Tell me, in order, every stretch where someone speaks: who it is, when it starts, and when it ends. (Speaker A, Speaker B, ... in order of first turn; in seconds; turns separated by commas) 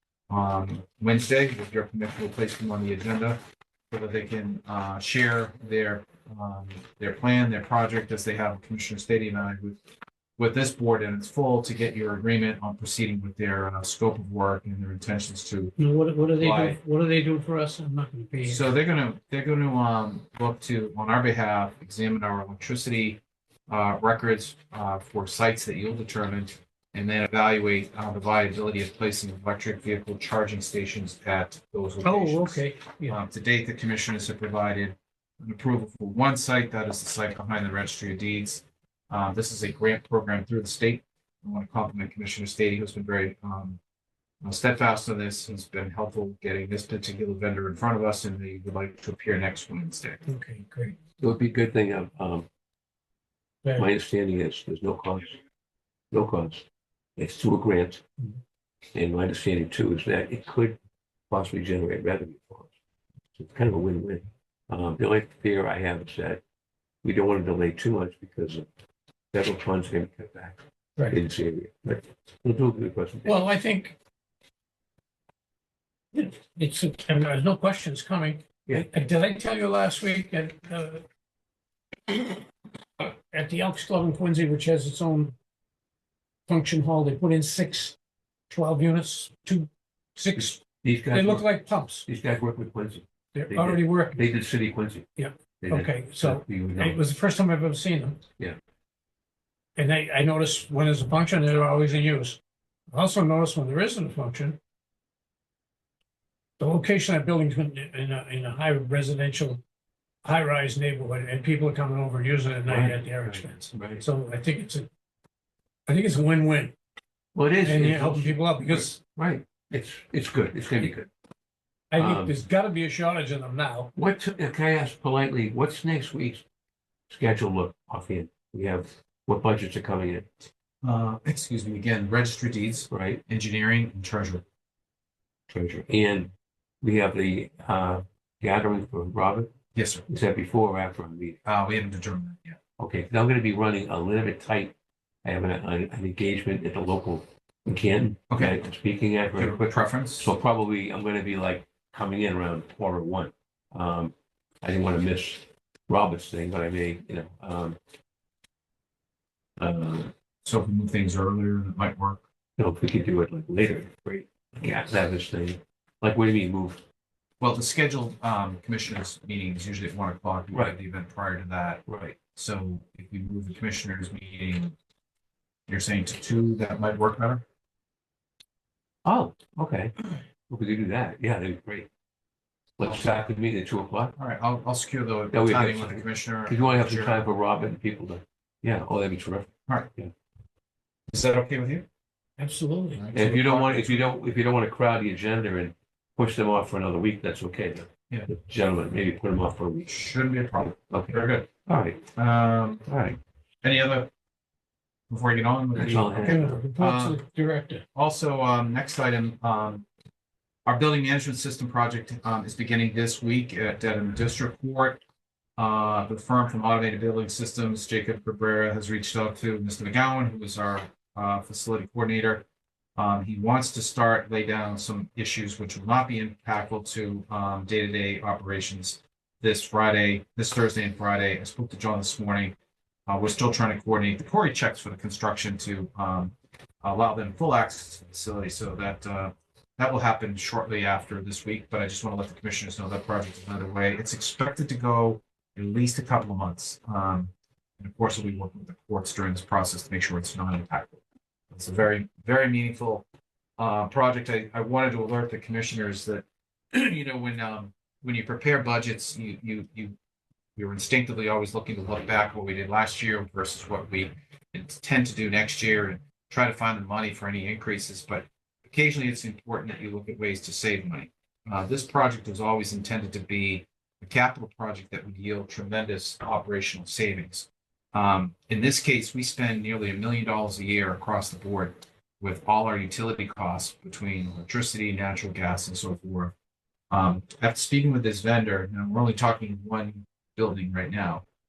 Speaker A: 0.3-3.4, Speaker A: 3.9-9.8, Speaker A: 10.4-15.7, Speaker B: 15.8-18.7, Speaker A: 16.4-16.8, Speaker A: 18.4-43.8, Speaker B: 32.0-33.2, Speaker A: 44.4-50.2, Speaker B: 50.2-51.0, Speaker C: 51.2-52.5, Speaker B: 53.6-53.9, Speaker C: 53.8-55.4, Speaker C: 56.1-56.6, Speaker C: 57.2-58.0, Speaker C: 58.9-60.8, Speaker C: 61.3-62.7, Speaker C: 63.4-66.4, Speaker C: 67.0-68.7, Speaker C: 69.3-73.4, Speaker B: 73.2-74.0, Speaker B: 76.1-81.0, Speaker B: 82.1-82.4, Speaker B: 83.0-85.3, Speaker B: 86.5-88.0, Speaker B: 88.5-92.0, Speaker C: 90.3-95.1, Speaker B: 93.3-94.3, Speaker B: 95.2-98.2, Speaker C: 95.6-97.0, Speaker B: 99.8-102.4, Speaker B: 102.9-104.6, Speaker B: 106.6-109.6, Speaker B: 110.2-114.9, Speaker C: 112.6-114.0, Speaker B: 115.9-116.7, Speaker C: 117.3-121.1, Speaker B: 117.6-119.0, Speaker B: 121.9-123.9, Speaker C: 122.0-122.3, Speaker C: 124.0-126.4, Speaker C: 127.1-130.3, Speaker A: 130.8-134.4, Speaker C: 132.9-133.2, Speaker C: 135.5-139.5, Speaker A: 139.7-140.1, Speaker C: 140.1-141.4, Speaker A: 141.4-142.6, Speaker C: 142.8-157.8, Speaker A: 148.3-148.6, Speaker A: 149.3-150.3, Speaker C: 159.6-160.1, Speaker A: 160.4-162.2, Speaker C: 162.6-166.8, Speaker A: 167.4-171.8, Speaker C: 171.9-172.2, Speaker A: 172.3-174.8, Speaker A: 175.7-177.4, Speaker C: 179.1-181.9, Speaker C: 182.8-184.1, Speaker A: 182.8-183.1, Speaker A: 184.2-187.2, Speaker C: 185.3-190.1, Speaker A: 191.1-191.9, Speaker B: 192.4-193.0, Speaker A: 193.0-194.0, Speaker C: 193.1-199.9, Speaker A: 199.8-201.5, Speaker C: 200.6-202.1, Speaker A: 202.2-202.8, Speaker C: 202.9-203.2, Speaker A: 203.6-204.1, Speaker A: 205.1-207.2, Speaker C: 205.8-206.7, Speaker B: 206.2-207.8, Speaker A: 207.9-209.9, Speaker A: 210.7-215.0, Speaker A: 215.6-232.6, Speaker A: 233.1-253.1, Speaker A: 253.6-260.0, Speaker A: 260.6-286.3, Speaker A: 286.9-291.2